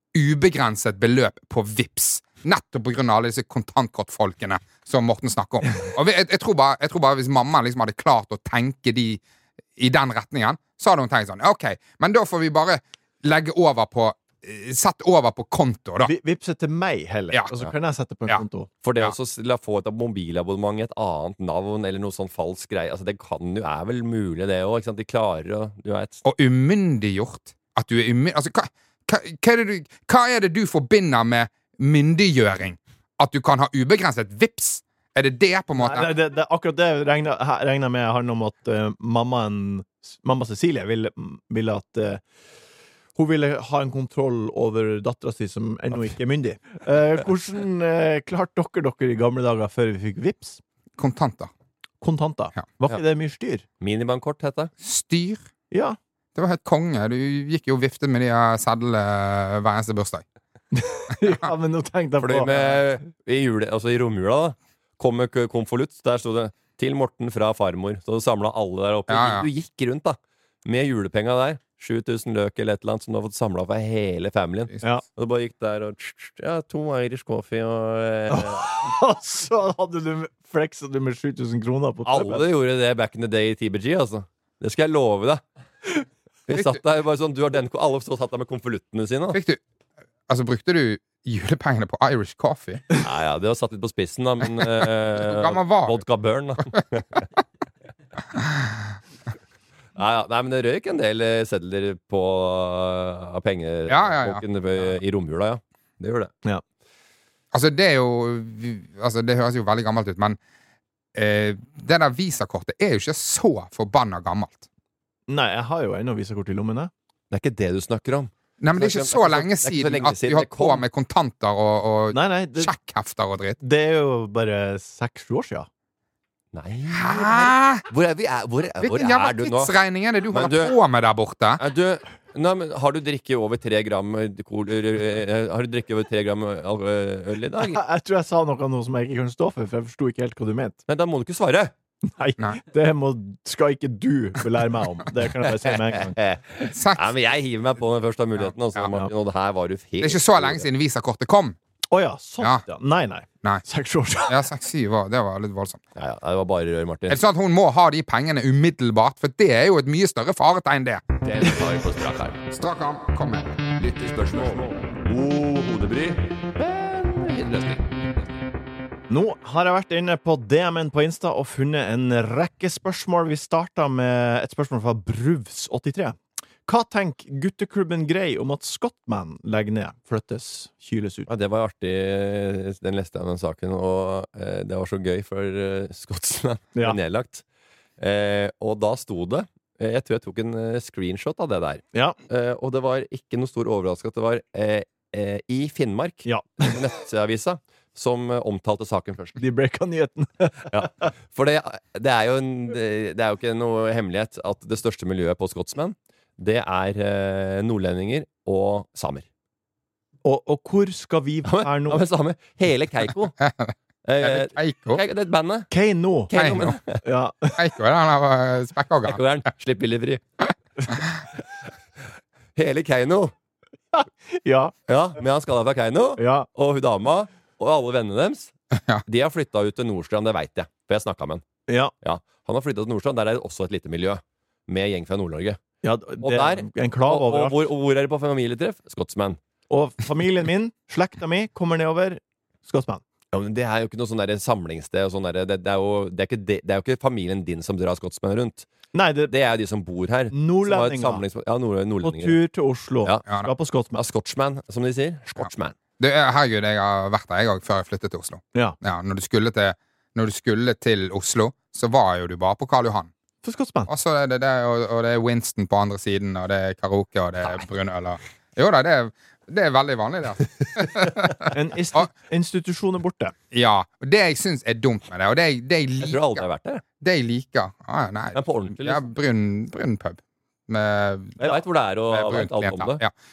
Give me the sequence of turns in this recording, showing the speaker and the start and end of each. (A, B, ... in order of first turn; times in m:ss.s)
0:00.1-0:09.2 A
0:09.8-0:16.1 A
0:16.0-0:18.7 B
0:18.8-0:26.2 C
0:26.2-0:36.1 A
0:35.8-0:42.2 B
0:43.2-0:50.6 B
0:51.0-0:51.5 A
0:52.0-0:53.6 B
0:53.8-0:54.7 C
0:54.8-0:55.4 A
0:55.7-0:56.0 B
0:56.3-1:00.2 A
1:00.7-1:03.0 B
1:02.2-1:18.9 C
1:09.1-1:09.5 A
1:18.3-1:22.4 B
1:22.1-1:25.4 C
1:26.5-1:29.4 C
1:26.5-1:26.8 A
1:29.3-1:29.6 A
1:30.3-1:32.9 A
1:33.0-1:37.3 C
1:35.2-1:36.0 A
1:38.3-1:38.8 A
1:40.0-1:46.3 C
1:43.9-1:44.4 A
1:47.5-1:50.4 A
1:51.1-1:54.6 A
1:55.3-1:56.9 B
1:57.3-2:00.8 C
1:58.6-2:03.6 A
2:02.1-2:02.7 B
2:03.6-2:05.7 B
2:06.5-2:09.7 C
2:06.9-2:07.8 A
2:08.8-2:11.6 A
2:10.3-2:10.7 C
2:11.6-2:17.8 C
2:17.6-2:20.8 B
2:20.9-2:21.7 C
2:22.0-2:26.2 B
2:26.1-2:30.6 C
2:26.7-2:27.0 A
2:28.7-2:29.1 A
2:30.0-2:31.6 A
2:31.9-2:34.3 B
2:34.3-2:35.8 A
2:36.0-2:37.2 C
2:37.1-2:41.1 A
2:41.2-2:42.4 C
2:42.5-2:43.5 A
2:43.8-2:48.2 C
2:49.1-3:01.3 B
3:01.3-3:07.4 C
3:08.0-3:19.4 C
3:16.2-3:16.8 B
3:19.4-3:21.1 B
3:20.7-3:29.2 C
3:30.2-3:32.0 B
3:31.4-3:33.4 C
3:33.4-3:35.0 A
3:34.0-3:35.7 C
3:35.7-3:36.3 B
3:36.3-3:37.0 C
3:36.3-3:36.8 A
3:37.0-3:37.6 B
3:37.6-3:39.2 A
3:39.1-3:40.4 C
3:42.5-3:43.3 C
3:43.9-3:44.7 B
3:44.9-3:48.5 C
3:46.2-3:46.5 B
3:48.8-3:49.0 A
3:49.0-3:51.4 C
3:52.0-3:55.6 C
3:55.8-3:57.6 B
3:56.2-3:59.4 C
3:59.7-4:03.0 B
4:03.3-4:08.7 C
4:08.9-4:09.3 B
4:09.3-4:12.4 C
4:10.3-4:11.2 B
4:12.0-4:14.0 B
4:13.9-4:15.8 C
4:16.0-4:23.1 A
4:23.4-4:23.9 B
4:23.9-4:32.0 A
4:31.5-4:33.3 B
4:33.5-4:36.4 A
4:36.0-4:36.8 C
4:37.0-4:41.4 A
4:38.3-4:39.0 C
4:41.4-4:43.0 C
4:42.1-4:43.1 A